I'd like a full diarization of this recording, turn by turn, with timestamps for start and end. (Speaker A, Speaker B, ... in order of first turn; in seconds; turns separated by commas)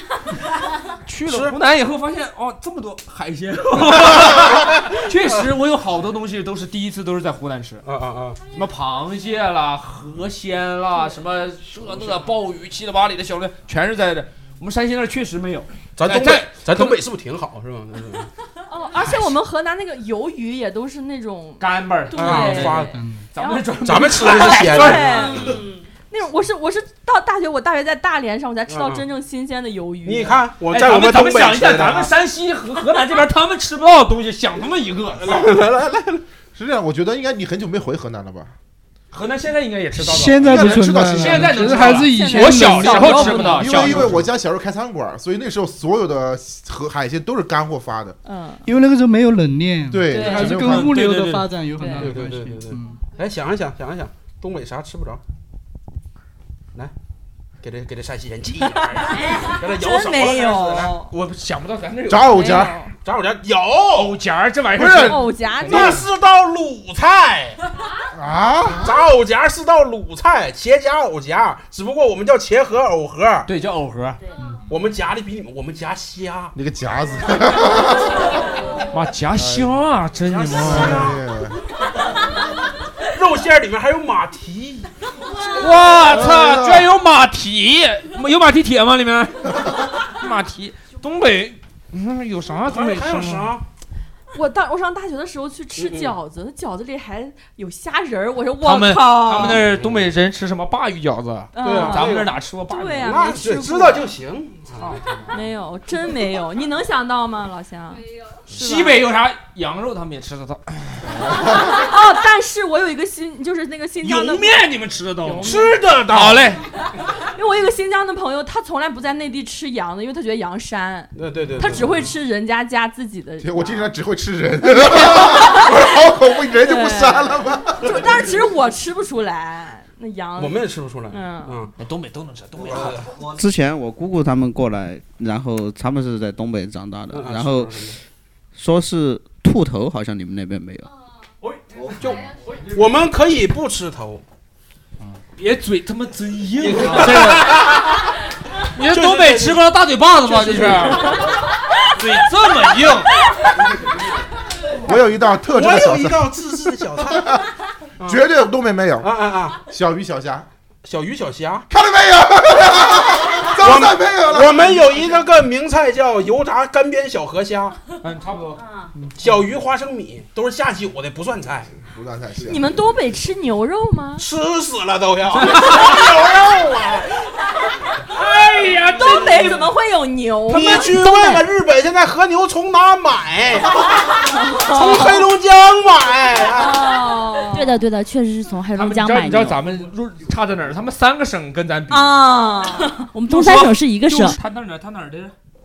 Speaker A: 1.1-7.8, Speaker B: 1.1-1.5, Speaker B: 7.8-8.4, Speaker A: 8.5-17.0, Speaker B: 16.0-18.3, Speaker C: 18.7-25.5, Speaker A: 21.6-25.6, Speaker B: 22.1-22.9, Speaker D: 22.9-23.3, Speaker B: 23.8-25.6, Speaker C: 26.1-30.4, Speaker B: 28.7-29.0, Speaker B: 30.0-32.1, Speaker A: 30.7-35.5, Speaker B: 35.2-36.2, Speaker E: 36.5-38.5, Speaker A: 39.1-44.2, Speaker D: 40.0-44.1, Speaker E: 40.4-41.9, Speaker C: 42.0-43.9, Speaker E: 43.5-48.2, Speaker C: 48.2-48.6, Speaker D: 48.6-53.0, Speaker E: 49.9-51.0, Speaker C: 50.1-50.5, Speaker A: 50.4-51.5, Speaker C: 51.8-52.1, Speaker B: 52.0-55.2, Speaker B: 57.6-60.9, Speaker C: 59.0-61.1, Speaker A: 61.1-62.6, Speaker E: 62.1-62.7, Speaker C: 62.3-62.9, Speaker B: 63.0-64.2, Speaker A: 63.9-66.0, Speaker E: 64.8-65.2, Speaker C: 65.0-66.0, Speaker B: 65.6-67.6, Speaker E: 68.1-68.9, Speaker B: 68.8-73.5, Speaker A: 73.5-74.2, Speaker B: 74.7-76.5, Speaker E: 76.5-78.3, Speaker A: 78.9-81.1, Speaker E: 79.4-79.7, Speaker B: 80.3-81.2, Speaker E: 80.5-81.6, Speaker B: 83.1-84.9, Speaker A: 85.5-93.5, Speaker E: 86.0-86.9, Speaker B: 92.6-93.6, Speaker C: 94.3-99.6, Speaker B: 95.8-96.1, Speaker A: 98.6-103.3, Speaker B: 99.5-100.1, Speaker C: 101.5-104.1, Speaker B: 101.6-102.4, Speaker B: 103.0-105.0, Speaker C: 105.3-109.0, Speaker A: 108.5-111.2, Speaker C: 111.6-114.6, Speaker A: 114.0-116.6, Speaker C: 115.2-115.8, Speaker B: 115.4-116.5, Speaker C: 117.2-123.8, Speaker B: 121.1-122.1, Speaker E: 123.4-128.0, Speaker C: 125.1-125.7, Speaker C: 126.6-131.5, Speaker B: 130.4-131.7, Speaker A: 131.8-133.1, Speaker B: 132.6-133.2, Speaker F: 133.2-137.7, Speaker B: 137.1-138.0, Speaker F: 138.5-140.9, Speaker B: 142.0-144.2, Speaker A: 145.4-148.1, Speaker B: 146.7-147.7, Speaker A: 148.7-151.2, Speaker B: 148.9-149.6, Speaker B: 150.2-151.3, Speaker A: 151.9-153.1, Speaker E: 154.8-156.3, Speaker B: 155.5-157.4, Speaker E: 158.0-160.5, Speaker B: 159.0-159.6, Speaker B: 160.8-161.7, Speaker E: 161.7-165.1, Speaker B: 163.4-167.8, Speaker A: 168.0-168.6, Speaker B: 169.2-171.7, Speaker E: 171.8-172.7, Speaker C: 172.4-174.2, Speaker B: 174.2-177.1, Speaker A: 175.3-176.0, Speaker A: 178.1-179.7, Speaker C: 178.9-180.9, Speaker B: 180.5-184.0, Speaker G: 181.0-181.4, Speaker C: 184.3-185.2, Speaker B: 184.6-186.9, Speaker C: 186.6-187.7, Speaker G: 187.5-189.6, Speaker A: 188.7-192.4, Speaker C: 191.9-193.1, Speaker G: 193.1-194.4, Speaker A: 193.3-195.3